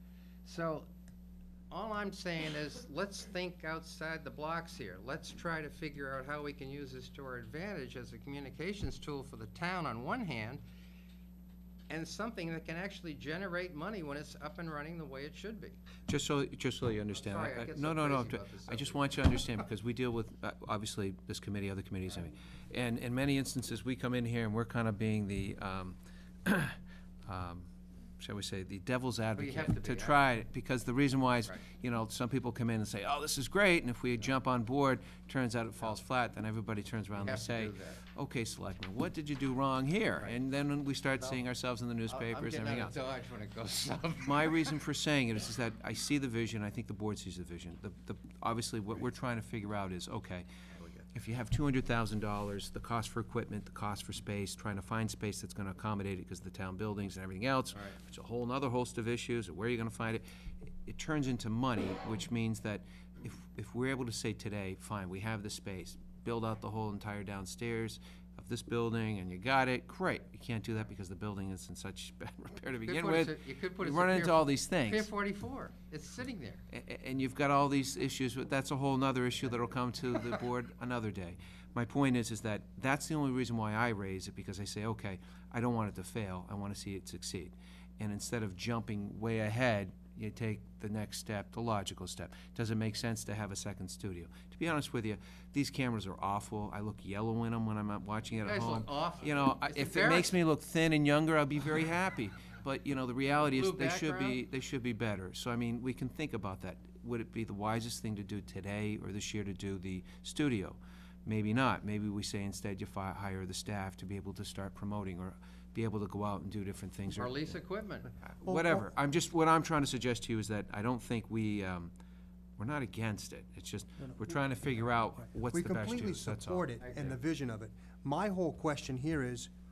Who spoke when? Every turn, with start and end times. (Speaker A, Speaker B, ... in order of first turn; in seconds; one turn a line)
Speaker A: 0.4-0.9
Speaker A: 1.7-10.6
Speaker A: 11.9-15.8
Speaker B: 16.1-27.7
Speaker A: 17.1-19.2
Speaker B: 28.2-42.9
Speaker A: 29.3-30.2
Speaker A: 37.1-38.0
Speaker A: 42.1-44.7
Speaker B: 44.2-50.5
Speaker B: 51.1-60.2
Speaker A: 57.7-58.0
Speaker B: 60.8-75.1
Speaker A: 72.8-76.6
Speaker B: 76.7-117.6
Speaker A: 98.4-100.3
Speaker A: 103.4-104.4
Speaker A: 117.2-118.1
Speaker B: 118.2-121.9
Speaker C: 118.4-118.8
Speaker B: 122.6-126.7
Speaker C: 125.4-129.5
Speaker A: 126.8-127.2